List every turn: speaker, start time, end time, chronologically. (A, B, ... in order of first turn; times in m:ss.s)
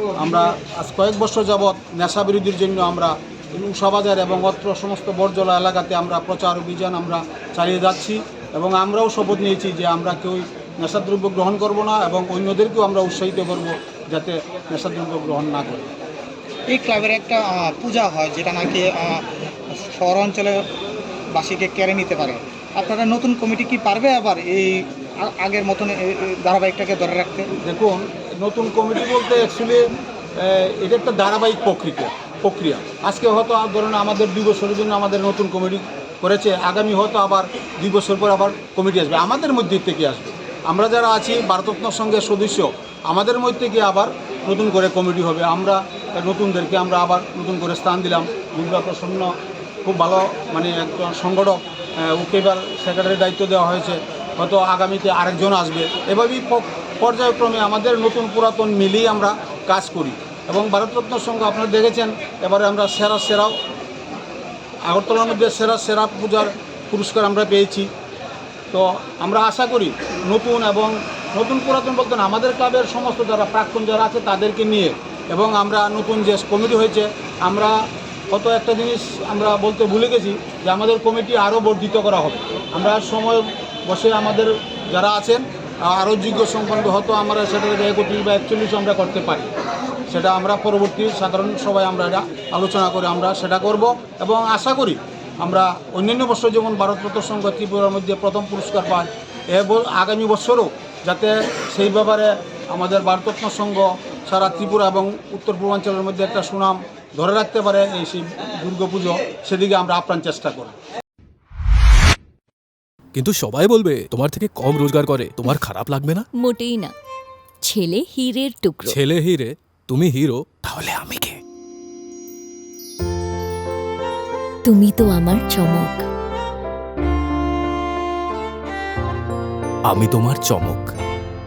0:00.2-0:15.9 A
0:16.7-0:20.6 B
0:21.3-0:27.5 B
0:27.6-0:29.8 A
0:30.4-0:49.3 A
0:49.8-1:03.6 A
1:04.9-1:07.9 A
1:08.7-1:17.8 A
1:18.3-1:29.5 A
1:30.1-1:50.8 A
1:53.2-1:56.2 C
1:56.4-1:56.9 D
1:57.6-1:59.0 D
1:59.1-2:01.3 C
2:04.7-2:06.0 D
2:09.9-2:10.8 C